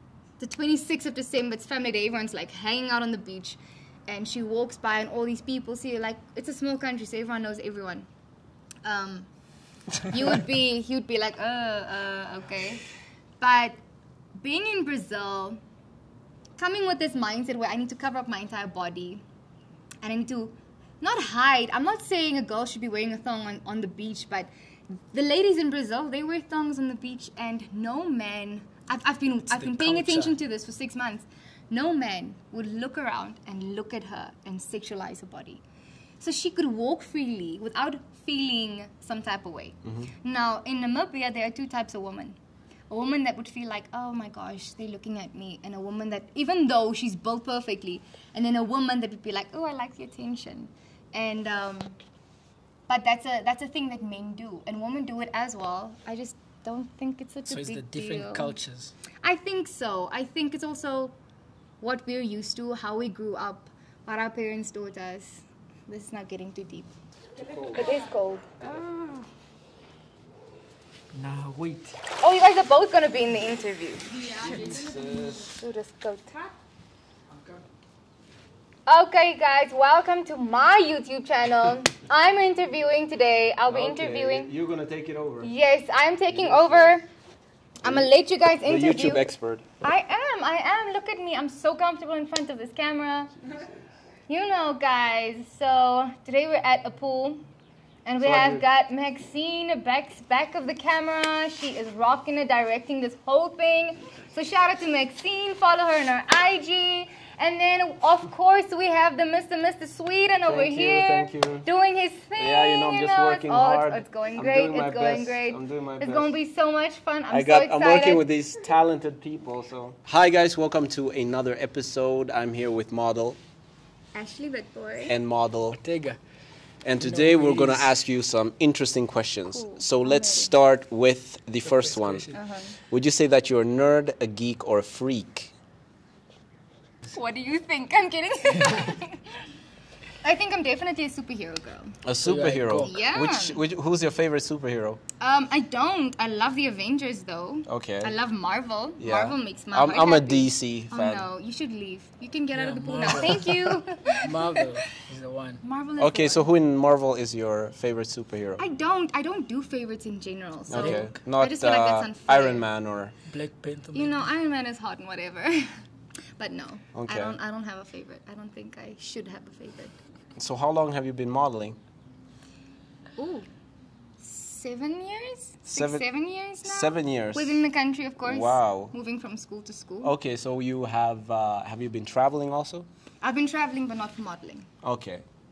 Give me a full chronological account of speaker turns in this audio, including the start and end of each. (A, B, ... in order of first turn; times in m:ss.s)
0:00.4-0:08.1 A
0:08.8-0:09.3 A
0:10.0-0:12.8 A
0:13.4-0:13.8 A
0:14.4-0:15.6 A
0:16.6-0:19.2 A
0:20.0-0:35.6 A
0:29.5-0:30.4 B
0:36.2-0:42.4 A
0:39.8-0:40.1 C
0:42.9-0:52.0 A
0:52.9-0:58.6 A
0:57.5-0:58.9 B
0:59.2-1:01.1 A
1:01.8-1:06.9 A
1:07.4-1:07.8 C
1:07.6-1:09.1 A
1:11.1-1:12.0 B
1:12.1-1:16.5 A
1:14.4-1:14.8 B
1:14.4-1:15.5 C
1:18.8-1:24.5 A
1:23.7-1:25.5 C
1:25.4-1:27.1 A
1:26.3-1:27.0 C
1:27.8-1:28.1 C
1:27.8-1:29.3 A
1:28.6-1:29.6 C
1:29.8-1:33.4 A
1:33.5-1:33.7 C
1:34.3-1:37.4 A
1:38.0-1:58.2 A
1:38.2-1:38.6 C
1:50.4-1:51.7 C
1:52.4-1:56.3 C
1:57.3-2:03.4 C
2:04.1-2:05.2 A
2:05.0-2:05.8 C
2:05.7-2:06.2 B
2:06.8-2:15.5 C
2:07.0-2:07.9 B
2:09.5-2:10.5 A
2:11.6-2:12.4 B
2:12.3-2:12.8 A
2:17.1-2:19.4 A
2:20.2-2:22.0 A
2:22.0-2:25.0 C
2:22.2-2:22.9 B
2:22.8-2:23.6 A
2:25.2-2:34.7 A
2:27.7-2:28.1 C
2:29.0-2:31.2 C
2:32.5-2:35.6 B
2:35.6-2:36.5 A
2:36.0-2:38.6 C
2:38.6-2:42.6 A
2:40.7-2:43.1 C
2:40.7-2:41.1 B
2:43.3-2:44.2 B
2:43.9-2:45.8 A
2:46.4-2:50.0 A
2:46.9-2:47.4 C
2:50.4-2:51.8 C
2:53.2-2:53.5 A
2:54.2-3:00.1 A
2:55.7-2:56.0 C
2:56.6-2:57.6 C
2:58.2-2:58.9 C
3:00.0-3:02.8 C
3:03.2-3:04.7 A
3:04.8-3:05.2 C